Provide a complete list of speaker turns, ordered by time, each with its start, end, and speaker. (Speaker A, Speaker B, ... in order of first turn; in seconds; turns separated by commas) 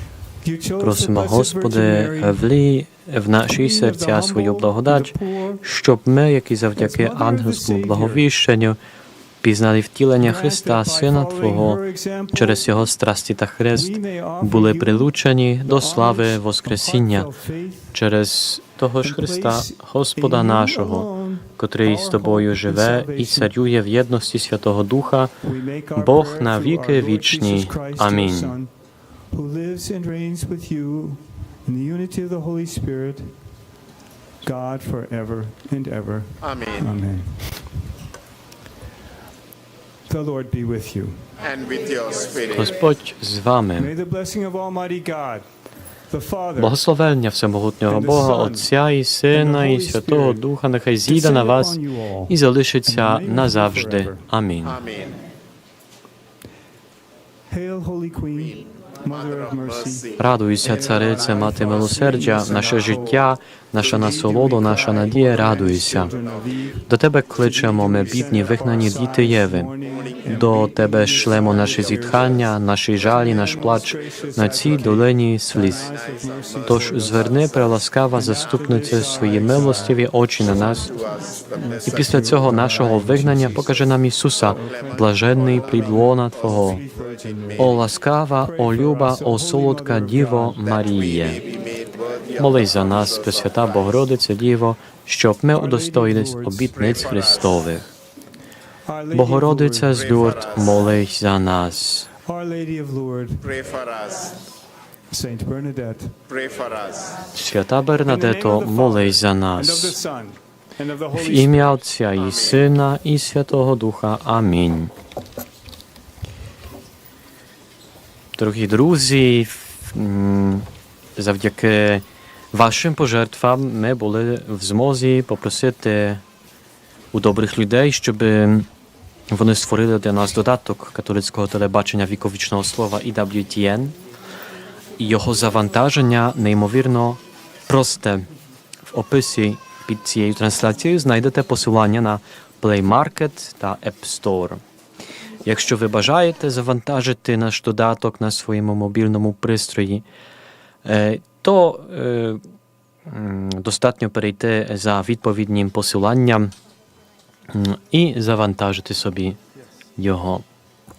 Speaker A: 0.4-2.5, Speaker B: 0.8-8.8, Speaker A: 3.4-5.6, Speaker A: 6.8-8.2, Speaker B: 9.4-17.3, Speaker A: 10.2-12.9, Speaker A: 13.7-18.0, Speaker B: 17.9-25.3, Speaker A: 19.0-23.6, Speaker A: 25.4-28.7, Speaker B: 25.9-28.6, Speaker A: 29.3-33.4, Speaker A: 34.4-37.8, Speaker C: 36.4-37.0, Speaker A: 40.1-41.3, Speaker C: 41.4-42.9, Speaker B: 42.5-43.9, Speaker A: 43.7-46.8, Speaker B: 46.6-54.8, Speaker A: 47.8-50.5, Speaker A: 51.0-54.3, Speaker C: 54.6-55.2, Speaker A: 57.5-77.6, Speaker C: 58.3-60.3, Speaker B: 60.2-66.1, Speaker C: 61.0-63.1, Speaker C: 64.0-66.7, Speaker B: 66.9-69.7, Speaker C: 67.5-69.0, Speaker C: 69.8-70.5, Speaker B: 70.3-75.9, Speaker C: 71.1-73.9, Speaker C: 74.4-75.0, Speaker C: 75.6-79.7, Speaker B: 76.7-80.9, Speaker A: 78.1-80.8, Speaker C: 80.4-82.8, Speaker A: 81.6-90.7, Speaker B: 81.8-86.8, Speaker C: 84.4-87.8, Speaker B: 87.6-91.4, Speaker C: 90.5-94.0, Speaker B: 92.4-97.8, Speaker A: 95.5-96.8, Speaker C: 96.7-97.8, Speaker A: 98.8-100.1, Speaker B: 99.1-102.1, Speaker C: 99.9-101.0, Speaker A: 102.2-103.5, Speaker C: 103.4-104.4, Speaker A: 105.1-106.2, Speaker C: 106.3-107.3, Speaker B: 107.3-110.0, Speaker A: 108.0-112.0, Speaker B: 111.1-114.9, Speaker C: 112.1-112.7, Speaker B: 118.3-126.2, Speaker B: 127.1-128.7, Speaker B: 129.3-133.9, Speaker B: 135.0-138.3, Speaker B: 138.8-144.6, Speaker B: 145.4-150.0, Speaker B: 150.8-152.4, Speaker B: 153.1-156.5, Speaker B: 157.5-159.4, Speaker B: 160.0-160.4